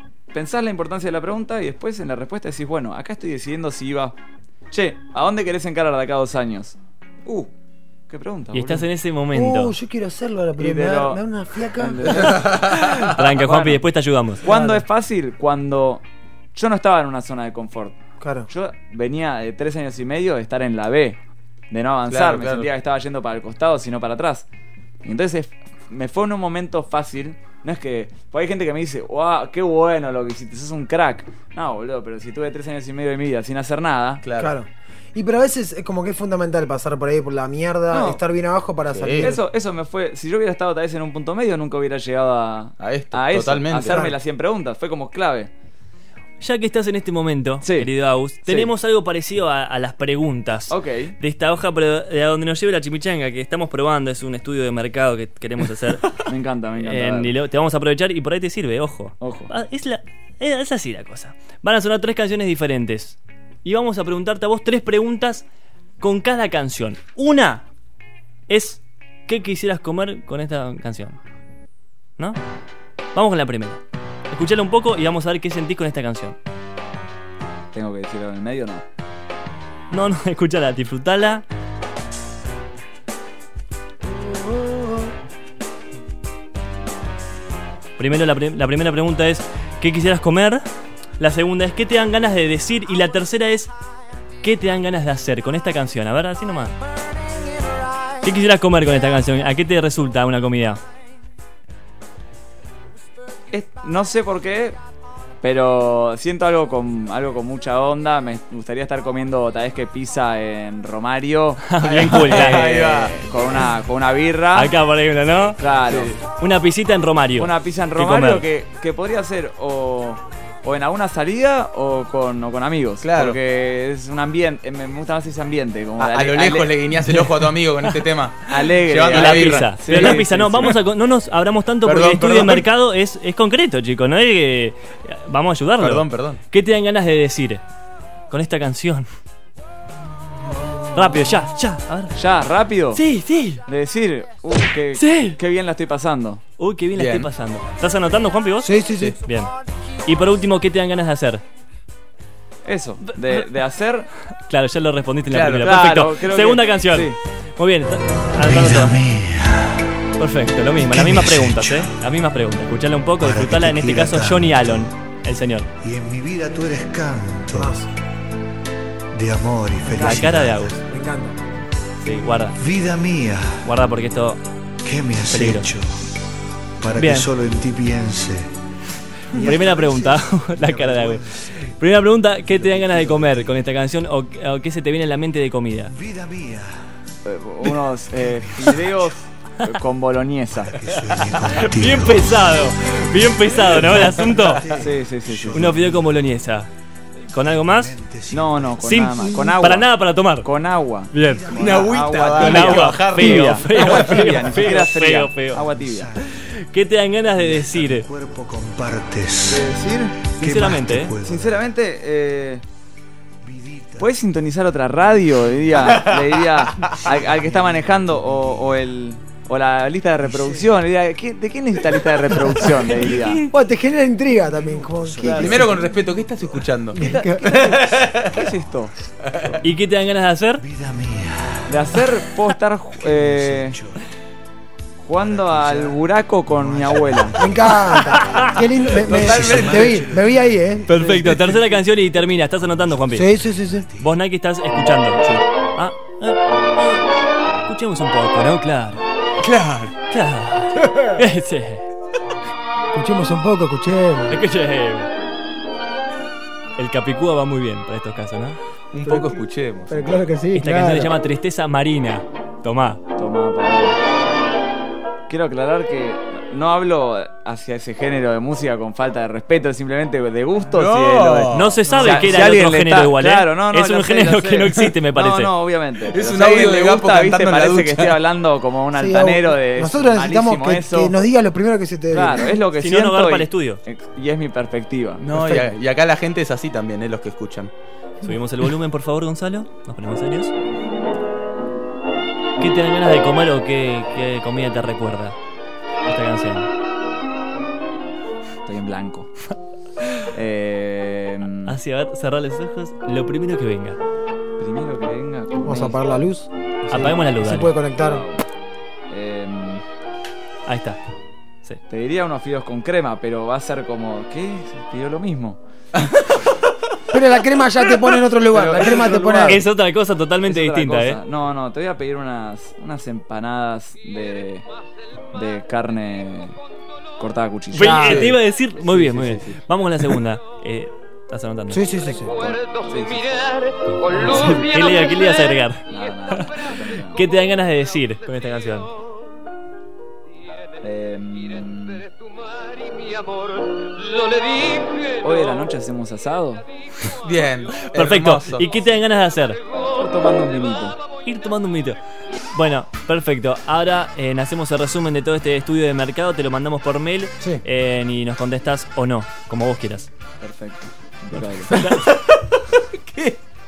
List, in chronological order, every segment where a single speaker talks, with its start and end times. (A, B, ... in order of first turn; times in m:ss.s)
0:00.3-0:04.2 A
0:04.7-0:07.5 A
0:08.1-0:08.9 A
0:08.5-0:09.8 B
0:09.3-0:12.4 C
0:10.6-0:11.2 A
0:11.8-0:13.8 A
0:12.3-0:13.2 D
0:12.8-0:14.4 B
0:14.4-0:18.0 A
0:14.4-0:14.8 C
0:18.2-0:18.5 C
0:18.5-0:21.2 A
0:21.7-0:24.5 A
0:22.1-0:22.7 D
0:25.0-0:34.2 A
0:34.2-0:34.5 D
0:34.4-0:39.4 C
0:37.9-0:38.2 A
0:38.9-0:39.3 D
0:39.1-0:45.5 A
0:42.8-0:44.1 D
0:43.9-0:44.2 C
0:46.4-0:56.2 B
0:47.6-0:47.9 A
0:48.4-0:48.7 A
0:50.7-0:51.2 A
0:56.2-0:57.3 A
0:56.8-1:05.4 B
0:59.2-0:59.5 A
1:06.0-1:07.7 B
1:08.5-1:11.2 B
1:13.1-1:16.4 B
1:17.7-1:18.8 A
1:19.9-1:21.4 B
1:24.3-1:24.8 C
1:28.0-1:30.6 B
1:31.2-1:33.7 B
1:34.4-1:36.8 B
1:38.2-1:40.8 B
1:43.5-1:44.8 A
1:45.4-1:54.7 A
1:51.7-1:52.8 B
1:51.8-1:53.1 D
1:54.6-1:55.6 B
1:55.6-1:56.2 A
1:55.9-1:56.2 D
1:56.4-1:58.4 B
1:57.4-2:06.8 A
2:03.0-2:03.4 D
2:06.0-2:10.7 D
2:08.5-2:10.7 A
2:09.1-2:17.6 B
2:11.8-2:12.7 D
2:15.8-2:16.4 D
2:18.3-2:19.1 B
2:20.9-2:22.2 B
2:22.2-2:23.0 A
2:22.9-2:23.6 B
2:23.7-2:26.4 A
2:25.0-2:25.4 B
2:26.6-2:29.5 B
2:27.0-2:27.3 D
2:28.6-2:29.2 C
2:30.1-2:31.4 B
2:32.7-2:34.1 A
2:34.5-2:39.0 B
2:35.3-2:35.7 D
2:35.6-2:37.2 A
2:38.4-2:40.1 E
2:40.2-2:45.7 B
2:40.8-2:42.0 E
2:43.2-2:44.9 E
2:45.8-2:47.8 E
2:47.6-2:47.9 C
2:49.1-2:50.8 E
2:49.9-2:51.4 C
2:50.0-2:50.8 B
2:52.0-2:52.6 B
2:52.5-2:53.8 E
2:53.6-2:54.4 B
2:54.8-2:56.1 E
2:55.3-2:55.7 B
2:56.8-2:58.6 E
2:57.0-2:57.3 B
2:59.3-3:01.8 E
2:59.4-3:06.0 B
3:02.5-3:03.7 E
3:05.9-3:07.0 E
3:07.2-3:10.8 A
3:08.1-3:09.1 E
3:10.5-3:12.6 E
3:11.5-3:14.7 B
3:13.6-3:16.3 E
3:14.7-3:15.8 A
3:15.5-3:16.7 B
3:17.3-3:17.9 B
3:17.4-3:19.3 E
3:18.3-3:19.9 A
3:18.8-3:20.5 B
3:20.4-3:26.1 A
3:21.1-3:21.5 B
3:21.2-3:22.0 E
3:21.5-3:24.3 D
3:22.4-3:25.6 B
3:24.3-3:24.7 E
3:25.5-3:26.5 E
3:26.3-3:28.1 B
3:27.3-3:31.6 E
3:29.5-3:30.2 A
3:30.4-3:31.1 B
3:31.2-3:32.6 A
3:33.4-3:34.2 E
3:34.0-3:43.4 A
3:36.8-3:38.8 E
3:40.2-3:40.8 E
3:43.0-3:43.3 B
3:43.5-3:45.8 C
3:44.4-3:47.1 E
3:45.2-3:45.6 A
3:45.4-3:48.5 D
3:46.9-3:47.9 C
3:48.2-3:48.9 A
3:49.2-3:49.6 D
3:49.6-3:50.6 B
3:50.6-3:54.0 E
3:51.7-3:53.8 A
3:55.0-3:57.4 A
3:55.1-4:01.8 E
3:57.4-4:01.3 C
3:58.1-3:58.5 B
3:59.1-3:59.9 D
4:00.9-4:03.3 B
4:02.6-4:04.2 E
4:03.1-4:03.9 C
4:04.0-4:05.2 B
4:05.8-4:07.0 B
4:07.7-4:09.0 B
4:09.4-4:10.0 D
4:10.1-4:11.9 B
4:12.9-4:14.4 C
4:14.3-4:15.1 B
4:16.8-4:18.6 B
4:18.9-4:20.2 D
4:19.0-4:21.1 C
4:20.5-4:23.0 B
4:23.2-4:24.0 A
4:25.3-4:41.2 A
4:30.7-4:31.8 D
4:31.5-4:35.5 B
4:31.9-4:32.3 C
4:36.1-4:38.2 D
4:38.9-4:42.6 C
4:42.1-4:45.2 A
4:42.8-4:43.8 B
4:45.2-4:47.7 D
4:45.3-4:45.7 C
4:48.2-4:50.5 B
4:52.6-4:55.4 B
4:56.1-4:56.7 B
4:58.7-4:59.3 A
5:00.3-5:01.8 A
5:01.7-5:04.0 B
5:04.6-5:06.0 A
5:05.6-5:08.2 C
5:06.9-5:07.7 B
5:08.0-5:08.4 A
5:09.1-5:09.8 A
5:10.7-5:11.0 B
5:11.9-5:15.6 A
5:17.1-5:19.6 C
5:18.5-5:19.7 A
5:19.5-5:21.2 B
5:20.5-5:24.6 A
5:25.3-5:26.6 A
5:27.2-5:28.3 A
5:27.7-5:31.9 B
5:27.7-5:28.3 C
5:28.0-5:28.4 D
5:28.9-5:29.5 A
5:31.7-5:32.5 C
5:32.4-5:33.3 A
5:33.8-5:38.9 B
5:34.2-5:34.6 A
5:35.9-5:37.2 A
5:40.8-5:42.1 A
5:45.0-5:46.6 A
5:47.2-5:48.7 D
5:47.8-5:49.6 B
5:49.8-5:51.0 A
5:51.2-5:52.0 B
5:52.5-6:00.1 B
6:00.4-6:01.8 A
6:01.4-6:02.1 B
6:01.7-6:03.4 D